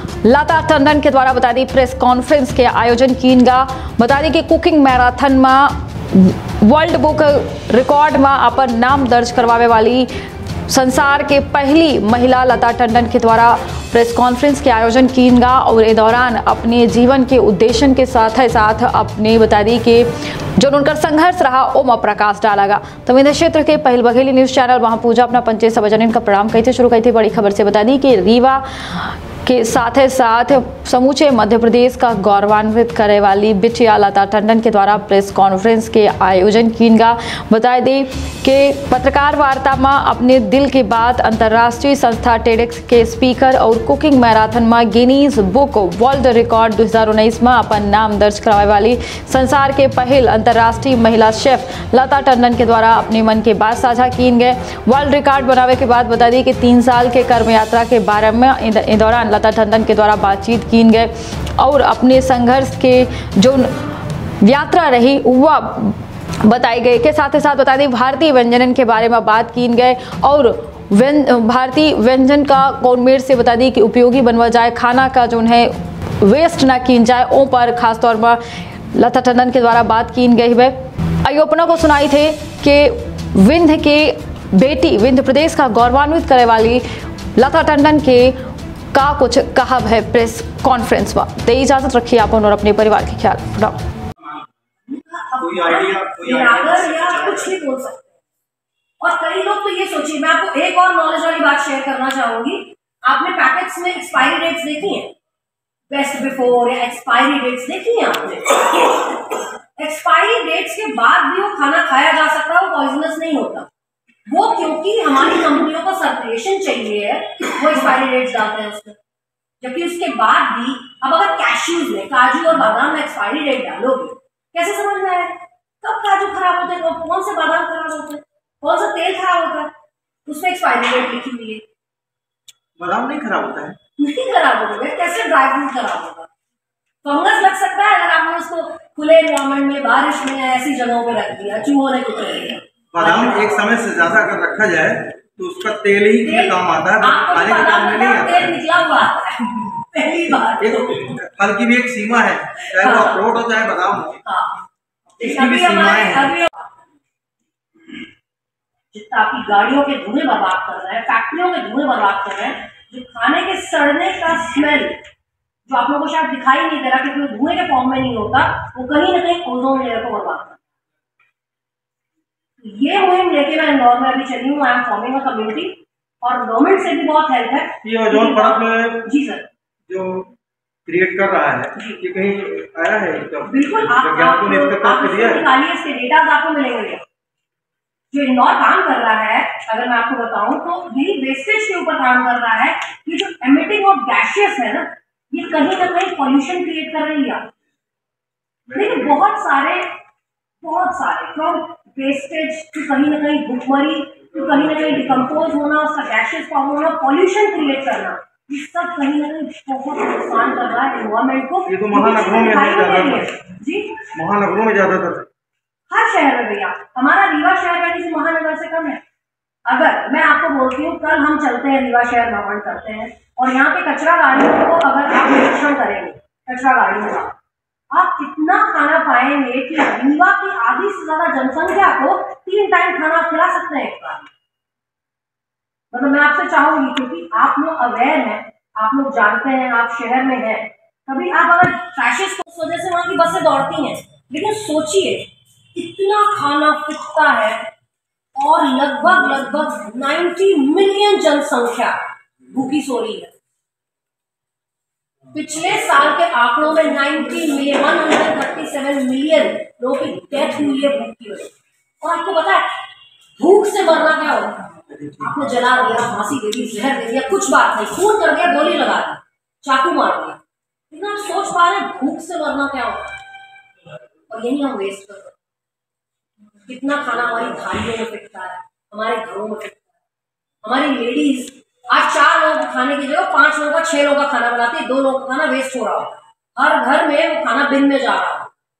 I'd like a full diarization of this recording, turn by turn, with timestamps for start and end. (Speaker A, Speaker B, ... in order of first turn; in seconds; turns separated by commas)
Speaker A: 0.2-10.1, Speaker A: 10.7-63.7, Speaker A: 64.4-78.4, Speaker A: 78.9-86.8, Speaker A: 87.3-88.3, Speaker A: 88.9-93.8, Speaker B: 94.8-98.2, Speaker C: 95.5-96.8, Speaker B: 99.0-105.1, Speaker B: 105.9-108.9, Speaker B: 109.8-113.7, Speaker B: 114.2-119.0, Speaker B: 119.6-129.7, Speaker B: 130.2-131.6, Speaker C: 132.8-133.8, Speaker B: 134.0-136.3, Speaker B: 137.0-143.8, Speaker C: 142.9-148.5, Speaker B: 146.2-151.1, Speaker C: 150.6-154.2, Speaker B: 152.7-153.2, Speaker B: 154.2-154.6, Speaker C: 155.1-156.3, Speaker B: 155.2-156.8, Speaker B: 158.9-165.0, Speaker B: 165.7-170.6, Speaker B: 172.6-179.4, Speaker C: 177.8-179.1, Speaker C: 179.9-180.3, Speaker C: 180.8-185.4, Speaker B: 181.7-182.0, Speaker B: 183.4-187.0, Speaker B: 188.1-197.5, Speaker B: 198.7-199.9, Speaker B: 200.6-214.1, Speaker C: 211.7-213.2, Speaker C: 214.1-215.3, Speaker B: 215.9-219.0, Speaker B: 219.7-227.3, Speaker B: 227.9-234.3, Speaker B: 235.9-247.7, Speaker B: 248.3-253.4, Speaker B: 255.3-262.7, Speaker B: 263.4-273.2, Speaker B: 274.3-275.4, Speaker B: 276.6-280.0, Speaker B: 280.6-288.5